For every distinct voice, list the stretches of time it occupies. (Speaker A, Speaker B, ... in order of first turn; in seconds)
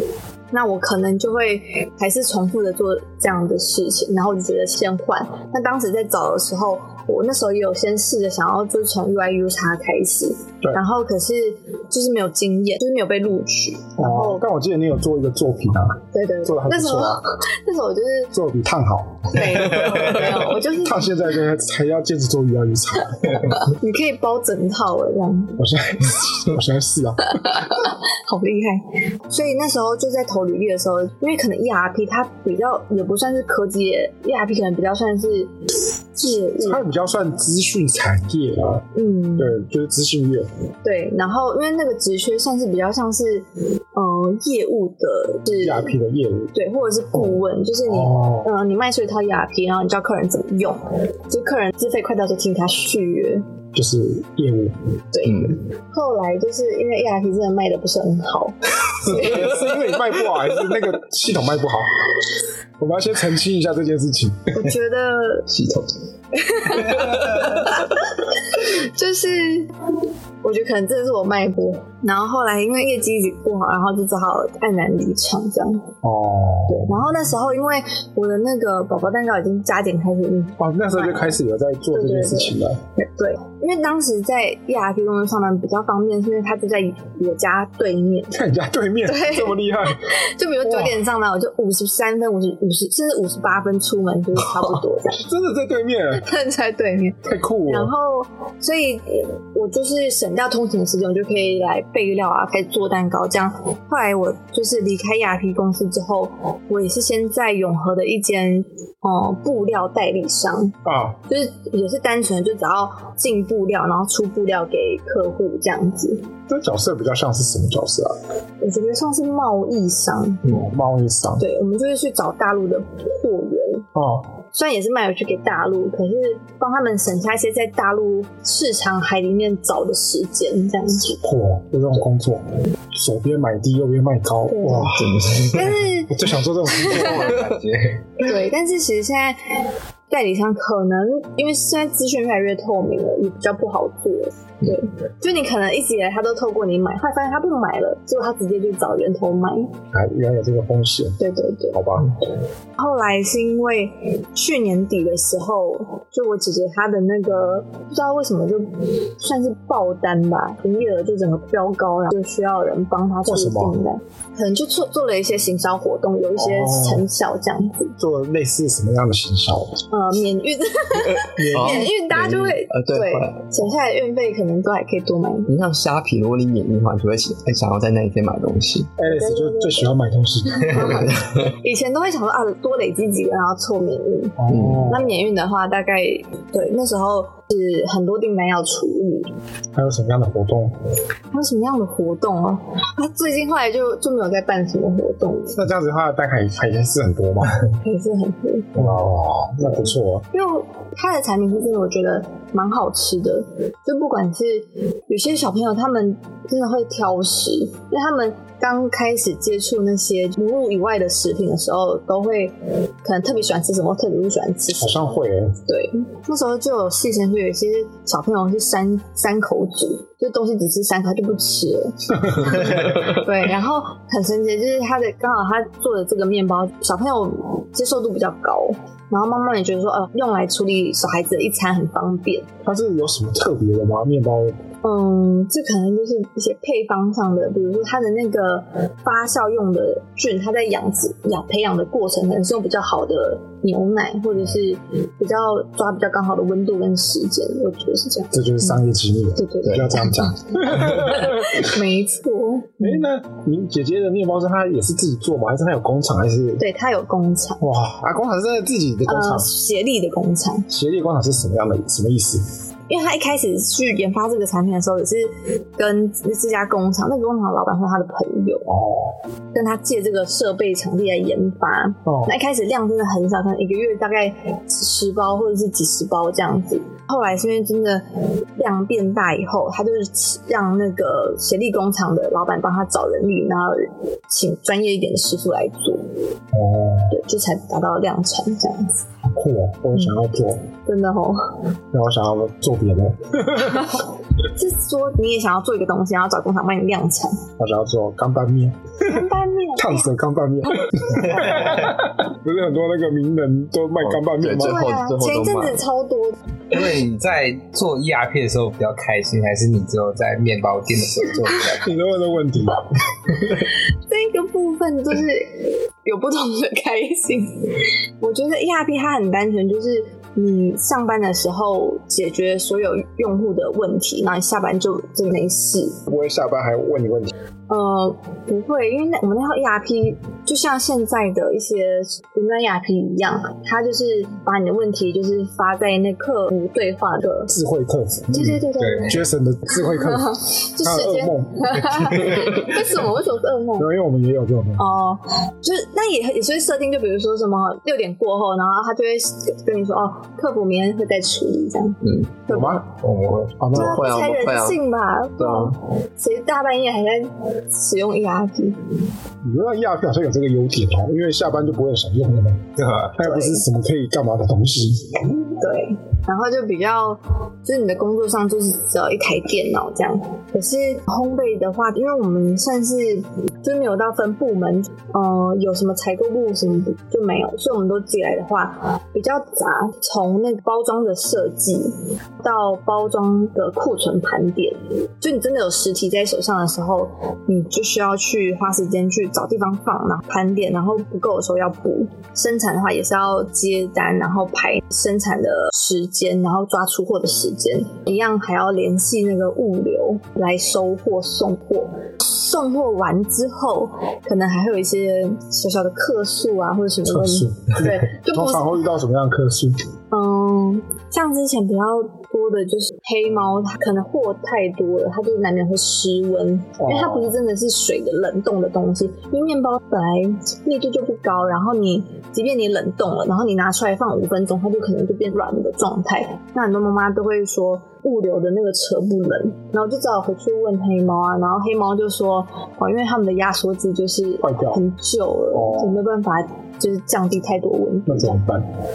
Speaker A: 0.5-14.4, 16.1-18.3, 19.3-21.1, 23.5-25.6, 27.4-35.5, 36.1-36.9, 38.9-39.6, 40.8-45.9, 46.5-53.4, 55.1-59.5, 64.5-65.5, 66.3-69.7, 70.4-75.9, 76.7-81.4, 81.9-88.3, 89.0-95.2, 96.1-116.3, 118.6-120.4, 121.4-123.9, 124.5-131.2, 134.5-134.9, 135.5-137.4, 138.2-139.4, 140.1-149.7, 151.2-151.8, 152.8-167.9, 169.9-175.5, 179.0-179.9, 180.5-189.3, 191.3-195.6, 197.8-198.9, 199.6-232.5, 234.8-248.3, 249.3-253.0, 256.6-257.6, 259.1-260.7, 262.9-268.7, 269.5-286.1, 287.1-289.0, 290.9-291.5, 293.7-297.4, 299.0-300.1, 304.5-306.4, 314.1-326.1, 327.7-337.5, 338.3-339.2, 339.9-343.9, 344.8-352.8, 353.7-358.8, 363.2-363.6, 365.6-408.8, 410.1-438.4
Speaker B: 14.0-17.2, 18.3-23.6, 25.6-27.7, 36.6-40.5, 45.6-46.5, 47.1-48.5, 53.7-54.8, 59.0-62.2, 62.8-64.5, 76.0-77.0, 80.6-82.8, 88.3-90.1, 90.6-91.0, 95.2-96.2, 97.2-97.9, 110.8-111.2, 116.5-118.2, 120.5-121.4, 123.9-124.3, 131.1-137.5, 149.9-151.2, 151.7-152.1, 163.3-163.8, 166.4-167.0, 168.0-169.8, 171.3-171.9, 179.0-181.1, 184.4-185.2, 189.7-190.7, 195.5-197.6, 198.8-200.2, 214.8-215.6, 222.3-223.0, 232.6-234.6, 248.3-251.8, 252.8-256.6, 257.6-259.5, 260.7-262.4, 268.7-269.2, 272.1-272.3, 286.5-287.1, 289.3-290.7, 291.9-294.0, 297.6-304.9, 311.8-312.8, 326.1-327.3, 337.5-342.9, 343.8-344.8, 352.5-352.9, 353.6-354.1, 359.4-365.4, 407.1-409.8, 416.8-417.3, 434.4-434.8, 435.5-436.0, 438.1-438.6
Speaker C: 55.3-55.5, 65.5-65.9, 67.0-67.4, 134.7-135.8, 136.8-137.4, 171.5-173.6, 175.5-178.9, 181.1-181.5, 184.5-184.9, 304.0-305.8, 353.7-354.8
Speaker D: 136.9-138.0, 306.7-311.9, 338.8-339.2, 353.0-353.6, 362.8-363.1